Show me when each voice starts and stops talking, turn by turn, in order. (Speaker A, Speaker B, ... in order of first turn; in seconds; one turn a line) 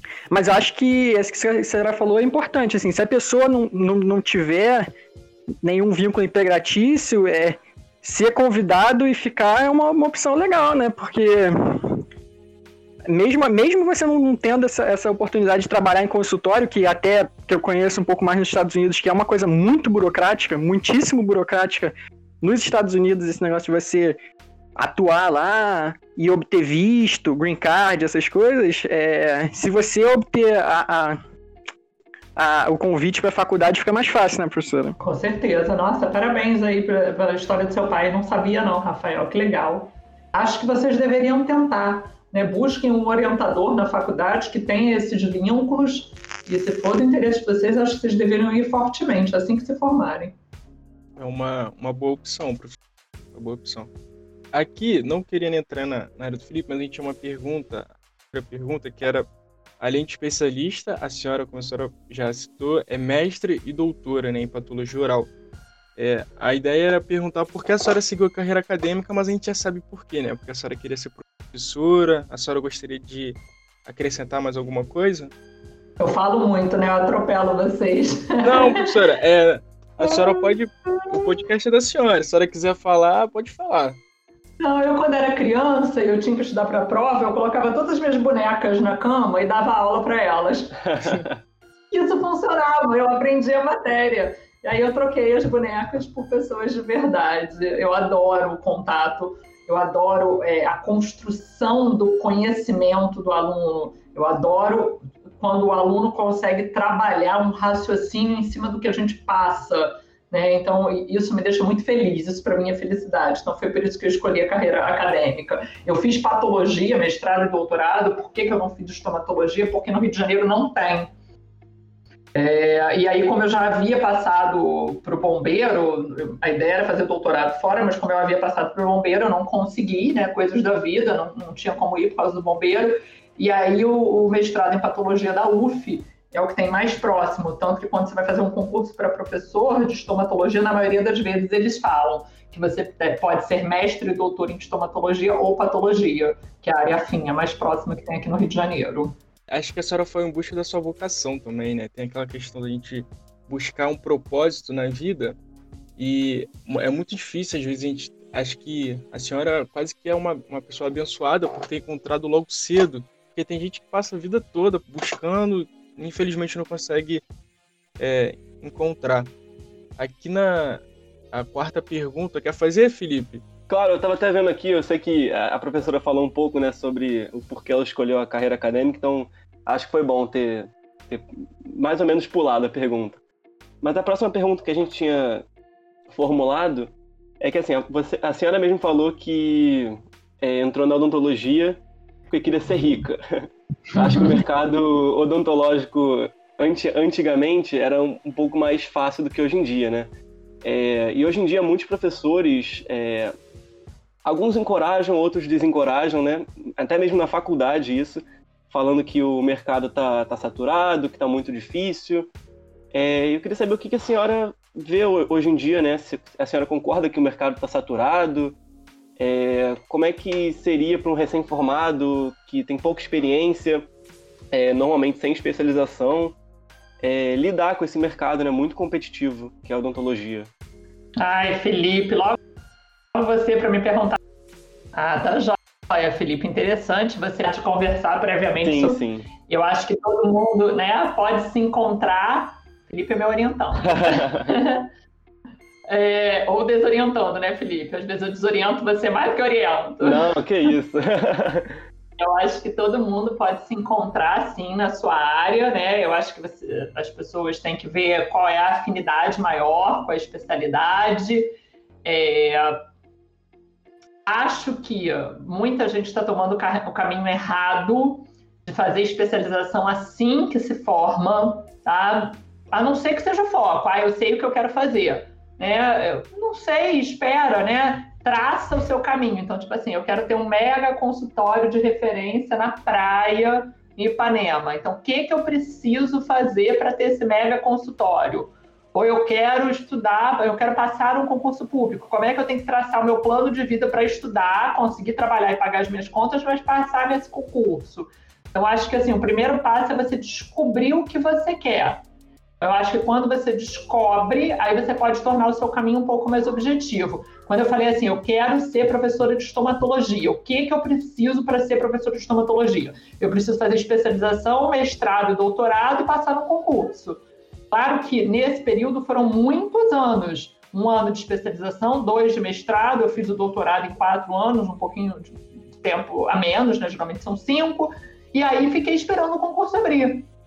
Speaker A: 0.3-4.9
Speaker A: 5.6-12.0
Speaker A: 13.1-24.2
Speaker A: 24.8-31.2
Speaker A: 32.4-35.0
Speaker B: 35.0-50.4
Speaker C: 51.2-52.8
Speaker C: 53.3-53.9
Speaker C: 54.5-59.3
Speaker C: 59.8-65.3
Speaker C: 66.0-75.3
Speaker B: 76.0-78.9
Speaker C: 78.4-84.0
Speaker B: 80.0-81.3
Speaker B: 84.6-91.2
Speaker D: 90.9-91.3
Speaker B: 91.9-121.1
Speaker B: 122.3-149.2
Speaker C: 149.5-155.4
Speaker C: 156.0-167.2
Speaker C: 168.0-169.3
Speaker C: 170.0-173.4
Speaker D: 173.7-183.2
Speaker D: 183.8-185.5
Speaker D: 186.1-200.1
Speaker B: 194.0-194.3
Speaker D: 200.6-203.3
Speaker D: 204.2-212.3
Speaker D: 212.9-218.6
Speaker D: 219.2-223.9
Speaker D: 224.5-226.4
Speaker D: 227.0-230.5
Speaker B: 231.2-232.4
Speaker B: 233.1-234.2
Speaker B: 234.9-244.9
Speaker D: 238.6-239.3
Speaker D: 243.9-244.5
Speaker B: 245.9-250.3
Speaker D: 250.0-251.8
Speaker B: 252.2-261.5
Speaker B: 262.1-262.8
Speaker B: 264.3-302.0
Speaker B: 302.6-330.3